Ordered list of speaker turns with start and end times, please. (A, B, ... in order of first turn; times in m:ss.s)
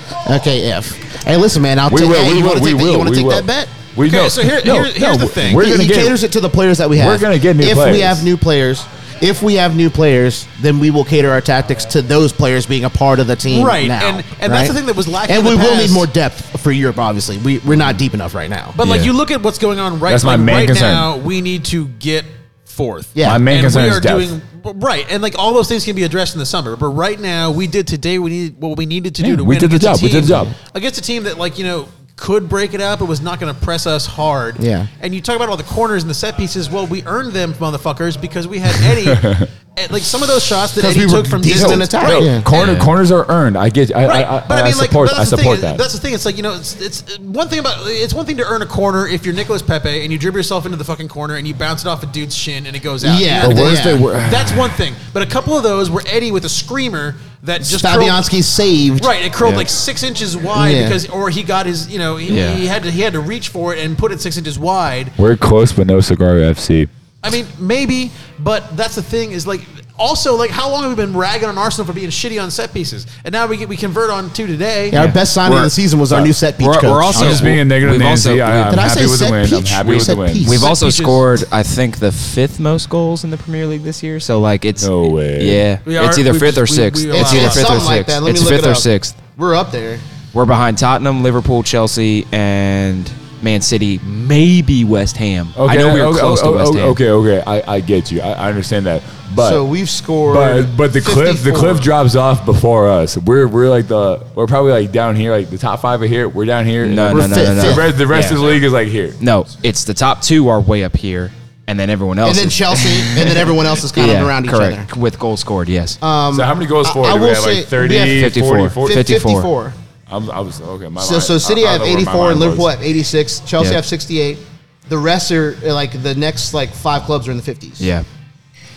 0:00.2-0:03.8 A
0:01.9-0:06.2 B
0:04.0-0:05.6 C
0:05.5-0:18.8 A
0:07.0-0:08.2 B
0:13.5-0:16.1 C
0:18.8-0:42.7 C
0:18.8-0:19.1 B
0:20.1-0:21.1 B
0:23.2-0:23.4 A
0:23.2-0:24.3 B
0:29.2-0:30.5 B
0:34.6-0:34.9 A
0:38.9-0:39.5 B
0:40.8-0:42.5 A
0:41.5-0:45.8 B
0:42.5-0:42.9 D
0:44.0-0:58.2 C
0:53.0-0:54.0 A
0:53.4-0:54.8 B
0:57.6-0:59.1 A
0:59.0-1:05.1 C
0:59.4-0:59.7 D
1:00.6-1:01.0 A
1:02.3-1:02.6 D
1:05.2-1:06.9 B
1:07.2-1:15.0 C
1:14.9-1:17.6 A
1:14.9-1:15.7 D
1:16.6-1:18.8 D
1:17.1-1:20.5 B
1:18.7-1:20.7 A
1:20.4-1:29.2 D
1:20.5-1:21.3 C
1:24.8-1:25.6 B
1:25.9-1:27.9 C
1:27.1-1:30.0 A
1:30.3-1:37.0 D
1:35.6-1:39.6 B
1:39.4-1:41.9 A
1:40.3-1:49.2 B
1:46.8-1:48.4 D
1:47.1-1:48.0 A
1:49.2-1:56.0 D
1:52.2-1:54.9 A
1:56.0-1:59.8 A
1:56.3-1:59.1 B
1:58.0-1:59.5 D
2:00.1-2:02.7 B
2:01.0-2:07.9 A
2:07.8-2:08.1 D